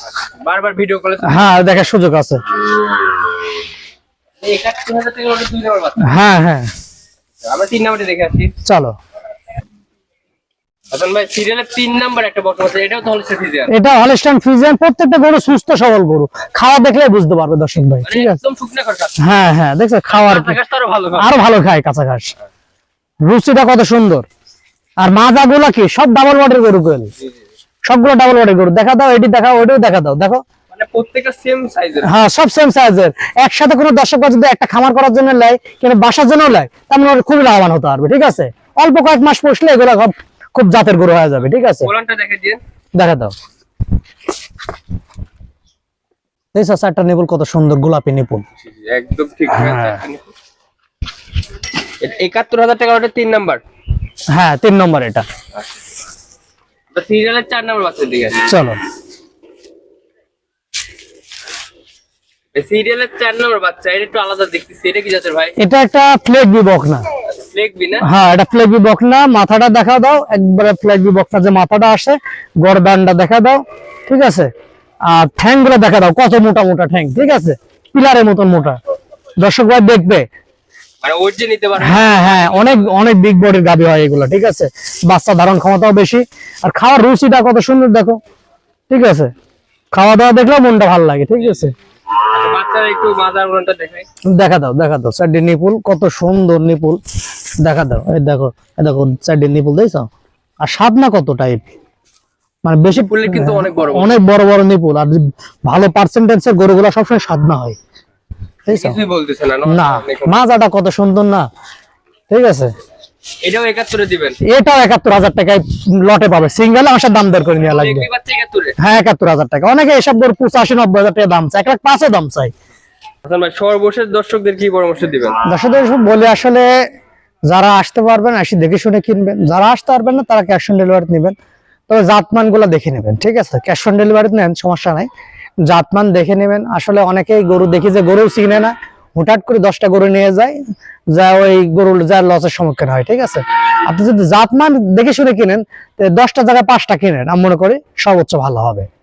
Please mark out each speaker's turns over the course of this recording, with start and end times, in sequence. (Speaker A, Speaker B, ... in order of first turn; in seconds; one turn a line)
Speaker A: 0.4-1.4
Speaker B: 1.2-2.4
Speaker A: 4.4-6.1
Speaker B: 6.0-6.7
Speaker A: 7.4-8.5
Speaker B: 8.6-8.9
Speaker A: 10.9-13.7
Speaker B: 13.7-18.4
Speaker A: 18.0-19.2
Speaker B: 19.2-20.6
Speaker A: 20.1-21.3
Speaker B: 21.1-22.3
Speaker B: 23.2-24.2
Speaker B: 25.0-27.1
Speaker B: 27.9-30.4
Speaker A: 30.7-32.1
Speaker B: 32.0-41.9
Speaker A: 41.8-42.6
Speaker B: 43.0-43.3
Speaker B: 46.5-48.5
Speaker A: 48.6-50.3
Speaker B: 49.5-50.0
Speaker A: 52.0-53.6
Speaker B: 54.3-55.2
Speaker A: 56.9-58.5
Speaker B: 58.4-58.8
Speaker A: 62.5-65.5
Speaker B: 65.6-67.0
Speaker A: 67.2-68.1
Speaker B: 68.0-74.5
Speaker B: 75.1-78.8
Speaker B: 79.4-80.3
Speaker A: 81.0-82.9
Speaker B: 81.8-88.2
Speaker B: 88.9-89.3
Speaker B: 89.9-91.7
Speaker A: 92.3-94.1
Speaker B: 94.3-97.0
Speaker B: 97.6-100.1
Speaker B: 100.6-101.6
Speaker B: 102.6-107.8
Speaker A: 103.1-104.2
Speaker B: 108.7-109.0
Speaker A: 108.7-110.4
Speaker B: 109.6-111.5
Speaker B: 112.3-112.7
Speaker A: 113.4-114.4
Speaker B: 114.4-118.1
Speaker A: 117.7-118.8
Speaker B: 118.8-122.5
Speaker A: 123.2-125.4
Speaker B: 125.5-126.7
Speaker B: 127.5-131.3
Speaker B: 131.9-135.1
Speaker B: 135.7-140.6
Speaker B: 141.1-148.9